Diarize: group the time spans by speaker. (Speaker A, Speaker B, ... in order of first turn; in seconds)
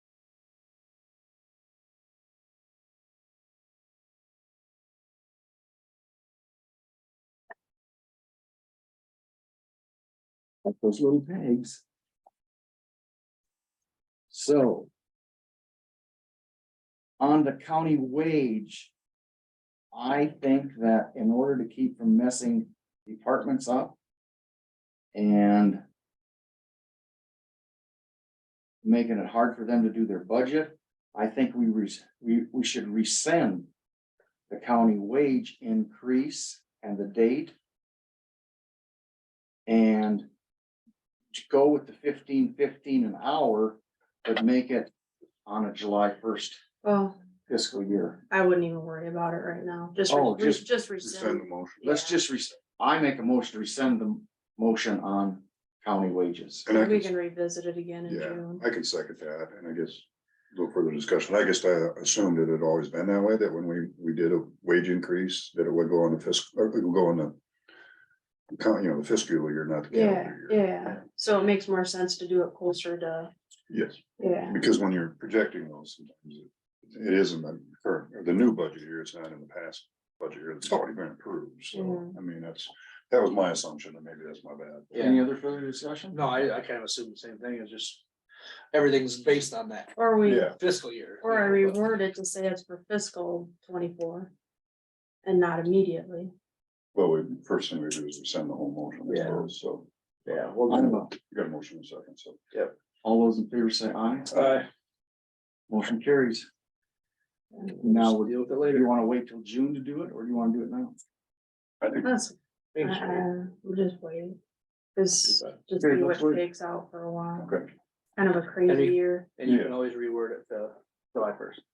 Speaker A: 10.6-11.8, 14.3-14.9, 17.2-18.9, 19.9-24.0, 25.1-25.8, 28.8-33.7, 34.5-37.5, 39.7-40.3, 41.3-44.9, 45.5-46.6, 47.5-48.2, 50.1-50.6, 51.8-56.7, 84.9-86.2, 100.7-101.1, 103.0-104.4, 105.7-106.5, 107.8-111.0, 115.8-116.4
Speaker B: 46.8-47.2, 48.3-52.2, 56.7-58.6, 69.9-73.3, 74.2-74.6, 81.7-82.2, 90.0-90.6, 91.2-94.3, 95.2-96.3, 112.0-114.4, 115.0-117.6, 118.2-119.3
Speaker C: 51.0-51.9, 56.7-57.1, 58.1-67.4, 68.5-70.7, 73.7-85.1, 90.2-90.6, 96.9-99.9, 101.1-102.4, 111.8-112.1, 117.4-117.7, 119.4-119.7
Speaker D: 86.1-88.0, 88.7-89.9, 90.5-91.8, 99.1-99.5, 100.3-101.0, 104.3-104.7, 107.8-108.8, 112.8-113.2, 118.7-121.6